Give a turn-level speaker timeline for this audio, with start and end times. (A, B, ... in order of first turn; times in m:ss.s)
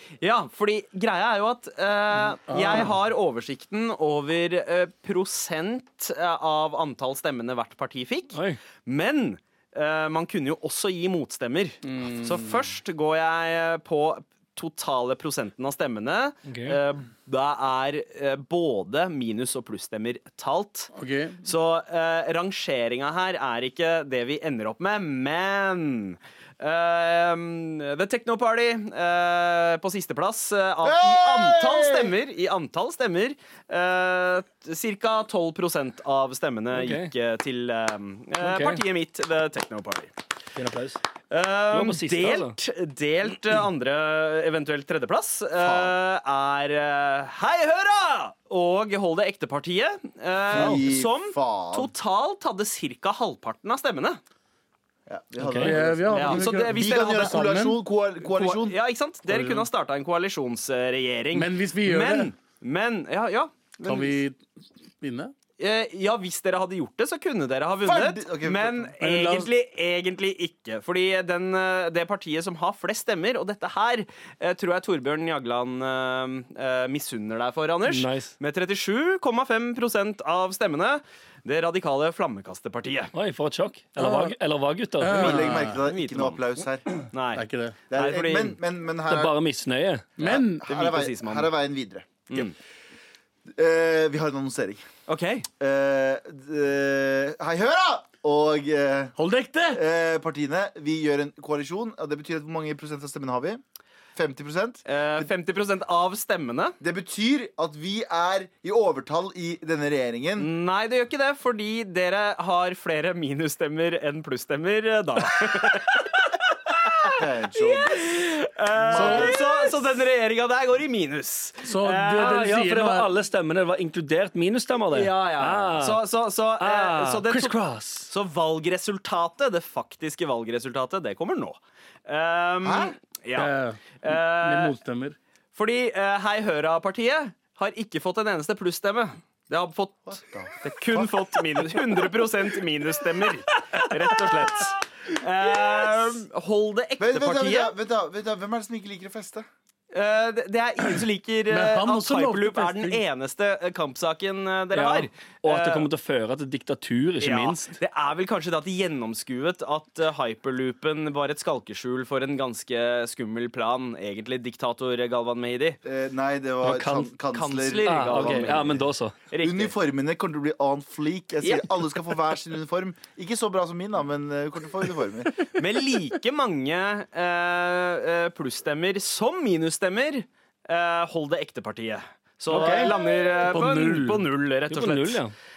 0:00.2-0:20.9 A
0:02.5-0:02.9 B
0:08.3-0:08.6 C
0:11.8-0:12.6 B
0:16.5-0:16.8 C
0:20.9-0:21.4 B
0:21.4-0:40.1 A
0:30.8-0:32.1 D
0:36.7-0:37.1 C
0:38.4-0:38.8 C
0:40.6-0:41.0 C
0:41.3-0:54.2 A
0:41.7-0:42.6 C
0:45.6-0:46.0 D
0:50.5-0:51.9 D
0:55.1-0:58.8 D
0:55.4-0:55.8 C
0:55.6-0:57.8 B
0:56.1-0:57.5 A
0:58.2-1:03.7 A
0:59.3-0:59.7 B
1:01.3-1:02.3 B
1:03.8-1:04.1 D
1:03.8-1:04.4 B
1:05.0-1:05.3 B
1:05.6-1:23.1 A
1:07.8-1:08.9 D
1:09.0-1:09.5 B
1:17.9-1:18.3 C
1:23.1-1:25.5 C
1:24.0-1:24.4 B
1:25.0-1:25.8 B
1:25.1-1:26.9 D
1:25.2-1:26.4 A
1:27.1-1:28.6 A
1:27.4-1:27.8 B
1:27.9-1:29.4 D
1:29.1-1:30.1 C
1:30.2-1:30.7 B
1:30.2-1:32.4 D
1:30.2-1:31.5 A
1:32.3-1:32.6 A
1:33.6-1:34.8 D
1:35.1-1:35.5 A
1:35.6-1:39.1 D
1:39.2-1:39.8 B
1:39.7-1:43.6 D
1:44.2-1:45.3 D
1:44.9-1:46.8 A
1:46.8-1:50.5 D
1:50.4-2:02.4 A
1:57.1-1:58.1 D
1:58.8-1:59.4 D
1:59.0-1:59.3 B
2:01.6-2:03.1 B
2:02.2-2:06.0 C
2:04.9-2:11.6 A
2:06.6-2:08.1 C
2:12.1-2:14.7 A
2:12.6-2:12.9 D
2:13.4-2:15.2 B
2:15.6-2:27.7 A
2:20.1-2:21.8 D
2:27.0-2:29.5 D
2:29.9-2:35.9 A
2:31.5-2:33.0 B
2:34.7-2:37.8 C
2:37.2-2:45.8 A
2:45.8-2:48.8 D
2:46.6-2:47.1 C
2:47.3-2:48.8 A
2:47.8-2:49.1 C
2:49.3-2:49.7 A
2:49.4-2:55.5 D
2:51.4-2:51.8 A
2:55.6-3:05.2 A
3:02.5-3:02.9 C
3:03.4-3:04.2 B
3:04.7-3:05.3 C